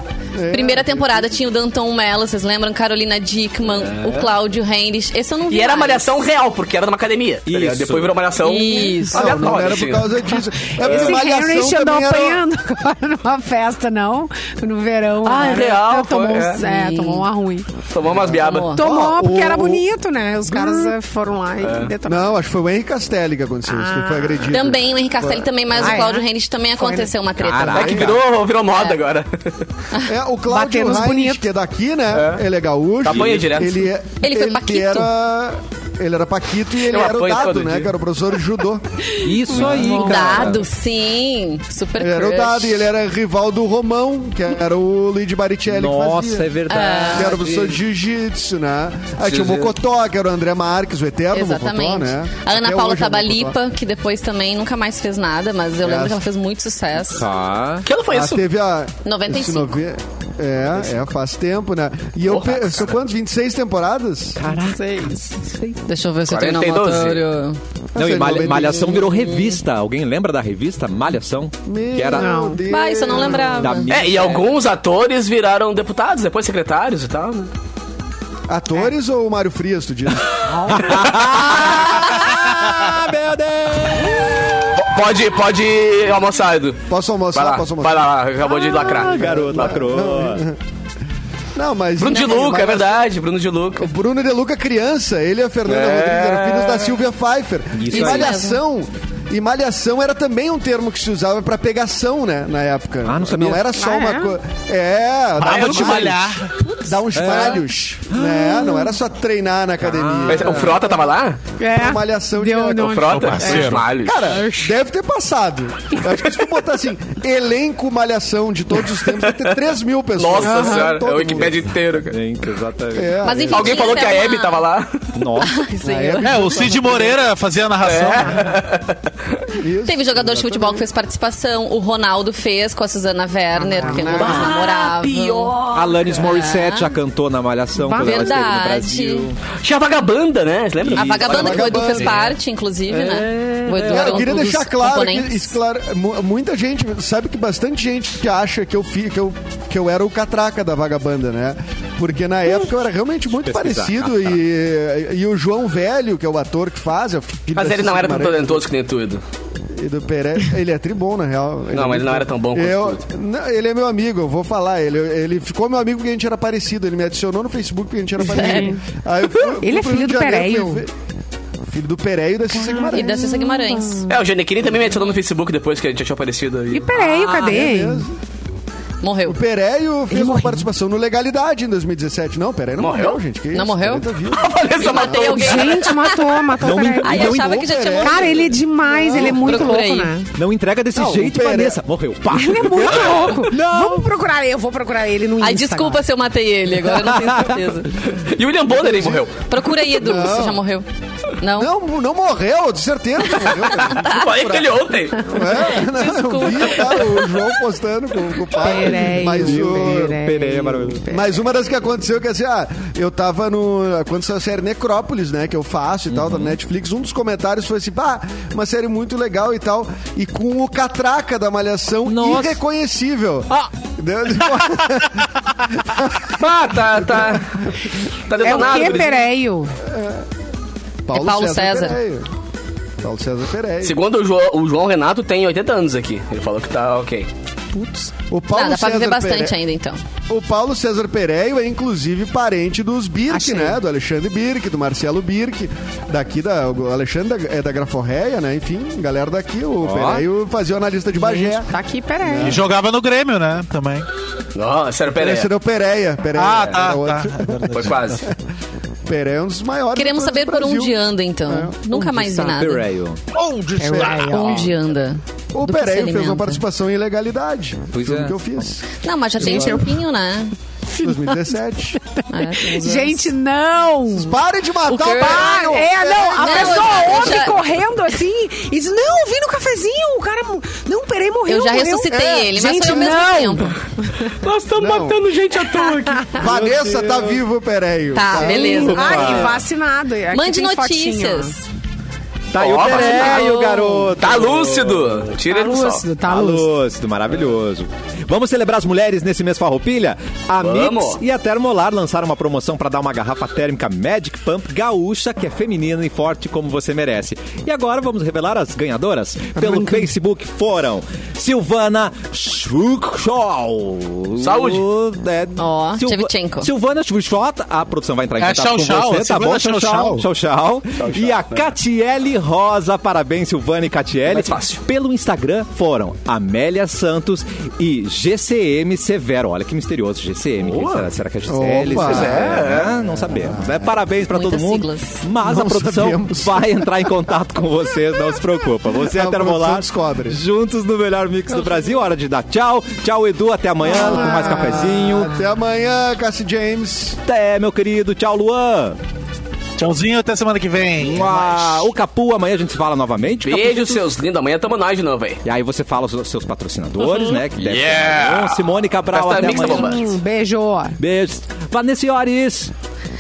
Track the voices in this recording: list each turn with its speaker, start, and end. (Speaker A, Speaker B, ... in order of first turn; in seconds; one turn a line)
Speaker A: 0.3-1.3
Speaker B: 0.5-6.1
Speaker C: 3.7-4.3
Speaker C: 5.5-10.2
Speaker D: 7.5-8.2
Speaker B: 8.4-9.6
Speaker A: 9.1-12.4
Speaker E: 10.8-17.7
Speaker C: 10.8-11.1
Speaker C: 15.2-16.6
Speaker B: 16.6-17.3
Speaker C: 17.9-18.7
Speaker A: 18.1-19.8
Speaker B: 18.3-18.8
Speaker E: 18.7-22.3
Speaker D: 19.2-19.5
Speaker A: 20.5-20.9
Speaker C: 21.6-21.9
Speaker A: 22.0-26.0
Speaker E: 23.7-24.5
Speaker B: 24.5-28.1
Speaker E: 25.8-27.1
Speaker D: 27.4-28.2
Speaker A: 27.7-28.1
Speaker C: 27.8-29.7
Speaker B: 28.7-29.0
Speaker A: 30.1-38.9
Speaker E: 30.5-31.4
Speaker C: 32.1-32.4
Speaker C: 33.0-33.9
Speaker D: 33.1-33.5
Speaker B: 34.2-35.1
Speaker C: 36.8-37.9
Speaker E: 39.2-40.6
Speaker D: 39.2-40.6
Speaker B: 39.9-42.9
Speaker A: 42.0-46.6
Speaker D: 45.7-47.7
Speaker B: 46.7-47.4
Speaker A: 47.1-53.6
Speaker C: 49.2-49.7
Speaker B: 51.3-57.3
Speaker A: 55.8-56.2
Speaker D: 57.0-57.9
Speaker C: 57.9-58.5
Speaker A: 58.1-64.4
Speaker B: 59.0-59.8
Speaker C: 62.3-63.0
Speaker D: 64.4-65.8
Speaker E: 64.5-65.3
Speaker B: 65.8-67.6
Speaker C: 66.3-67.2
Speaker A: 67.9-69.2
Speaker D: 68.0-72.5
Speaker B: 69.2-69.6
Speaker A: 71.7-73.9
Speaker E: 72.1-72.6
Speaker B: 72.7-73.9
Speaker D: 73.6-74.6
Speaker C: 73.9-77.5
Speaker A: 78.5-80.5
Speaker D: 80.5-84.9
Speaker C: 80.9-81.8
Speaker C: 84.8-89.3
Speaker A: 86.9-90.6
Speaker D: 88.7-90.5
Speaker A: 91.5-93.0
Speaker C: 92.0-93.9
Speaker A: 93.8-111.0
Speaker C: 95.7-97.0
Speaker D: 97.8-98.4
Speaker B: 97.9-98.6
Speaker D: 103.0-103.7
Speaker E: 103.8-104.4
Speaker F: 105.4-106.5
Speaker C: 105.4-106.5
Speaker D: 107.1-108.9
Speaker D: 109.8-110.8
Speaker C: 110.3-111.4
Speaker E: 111.6-114.7
Speaker A: 111.7-121.7
Speaker C: 112.8-114.4
Speaker F: 113.1-113.9
Speaker C: 119.1-119.5
Speaker C: 120.2-122.2
Speaker E: 120.4-120.9
Speaker D: 122.1-123.2
Speaker A: 122.9-124.0
Speaker B: 123.2-124.6
Speaker C: 123.5-125.0
Speaker D: 125.2-125.5
Speaker B: 125.4-126.7
Speaker A: 125.8-127.2
Speaker F: 126.2-128.5
Speaker C: 127.8-129.4
Speaker A: 129.5-130.9
Speaker B: 129.9-135.6
Speaker E: 133.6-134.5
Speaker A: 133.7-134.6
Speaker C: 134.0-136.2
Speaker D: 135.7-139.4
Speaker B: 136.2-136.9
Speaker E: 137.8-138.3
Speaker B: 137.9-139.3
Speaker C: 139.6-141.7
Speaker D: 140.8-142.3
Speaker B: 140.9-145.5
Speaker A: 141.3-142.2
Speaker C: 142.9-143.9
Speaker D: 143.5-144.4
Speaker A: 143.9-158.6
Speaker D: 153.4-154.4
Speaker C: 157.5-159.2
Speaker A: 159.7-170.9
Speaker C: 161.7-163.0
Speaker E: 168.2-168.8
Speaker B: 168.4-168.7
Speaker E: 169.6-170.8
Speaker A: 171.7-173.6
Speaker E: 172.5-174.1
Speaker B: 172.9-174.1
Speaker C: 174.1-176.9
Speaker E: 176.7-178.1
Speaker A: 177.2-178.2
Speaker B: 179.0-179.4
Speaker A: 179.2-185.4
Speaker E: 180.1-180.7
Speaker C: 182.8-183.2
Speaker B: 183.5-184.1
Speaker C: 184.3-186.1
Speaker B: 184.8-188.5
Speaker E: 185.3-187.4
Speaker D: 186.6-187.8
Speaker A: 187.1-189.7
Speaker E: 188.0-190.3
Speaker B: 189.1-190.1
Speaker D: 190.3-194.1
Speaker A: 191.0-191.8
Speaker E: 192.3-196.0
Speaker B: 195.4-198.0
Speaker D: 196.8-197.7
Speaker C: 198.0-199.4
Speaker A: 198.7-199.3
Speaker B: 199.4-200.8
Speaker A: 199.9-200.6
Speaker B: 201.4-201.7
Speaker A: 201.6-210.2
Speaker C: 203.6-205.3
Speaker B: 203.9-204.2
Speaker B: 205.8-207.2
Speaker E: 208.6-211.4
Speaker D: 209.0-211.1
Speaker A: 211.1-226.3
Speaker D: 216.1-216.6
Speaker D: 222.1-222.6
Speaker C: 226.4-227.6
Speaker A: 226.9-227.4
Speaker C: 228.3-229.3
Speaker E: 228.4-229.8
Speaker A: 229.9-230.2
Speaker A: 231.1-232.3
Speaker B: 231.1-232.0
Speaker A: 233.0-233.9
Speaker C: 233.8-237.3
Speaker E: 237.7-238.1
Speaker A: 238.3-239.6
Speaker B: 238.5-240.0
Speaker A: 240.3-251.7
Speaker E: 243.3-243.8
Speaker D: 249.8-250.3
Speaker E: 251.2-252.6
Speaker A: 252.2-252.7
Speaker F: 252.4-254.1
Speaker C: 254.6-255.5
Speaker A: 255.1-258.3
Speaker F: 256.4-258.2
Speaker C: 257.7-258.2
Speaker A: 259.1-262.0
Speaker B: 259.9-262.9
Speaker D: 262.3-263.2
Speaker F: 263.3-264.7
Speaker E: 263.8-264.7
Speaker A: 263.9-264.2
Speaker B: 264.2-266.6
Speaker A: 265.5-269.8
Speaker D: 267.9-268.4
Speaker B: 269.0-270.5
Speaker E: 269.4-269.9
Speaker E: 270.9-271.6
Speaker A: 271.0-272.0
Speaker E: 272.2-274.4
Speaker B: 272.3-273.3
Speaker A: 274.1-277.5
Speaker B: 274.9-275.9
Speaker E: 274.9-284.3
Speaker B: 276.4-277.6
Speaker B: 281.5-283.8
Speaker A: 282.1-283.1
Speaker C: 284.4-286.4
Speaker A: 284.8-285.3
Speaker A: 286.3-289.1
Speaker D: 286.4-287.4
Speaker B: 288.1-289.5
Speaker D: 288.3-289.6
Speaker E: 288.4-291.6
Speaker B: 290.3-291.6
Speaker D: 292.5-295.1
Speaker C: 292.6-293.6
Speaker B: 292.9-294.2
Speaker C: 294.2-296.1
Speaker E: 295.5-296.7
Speaker D: 296.2-345.4
Speaker C: 300.6-301.2
Speaker E: 309.6-310.0
Speaker C: 314.4-314.9
Speaker B: 315.6-316.7
Speaker F: 318.4-320.2
Speaker C: 321.0-321.7
Speaker C: 324.3-324.8
Speaker C: 330.6-331.1
Speaker A: 331.5-333.9
Speaker C: 331.9-332.9
Speaker B: 334.3-335.2
Speaker A: 335.4-336.9
Speaker A: 339.1-340.4
Speaker A: 343.9-347.2
Speaker D: 347.3-349.0
Speaker F: 349.8-351.3
Speaker D: 351.0-353.9
Speaker C: 353.4-355.4
Speaker D: 355.4-360.1
Speaker C: 357.4-360.1
Speaker E: 359.4-361.0
Speaker D: 361.0-362.7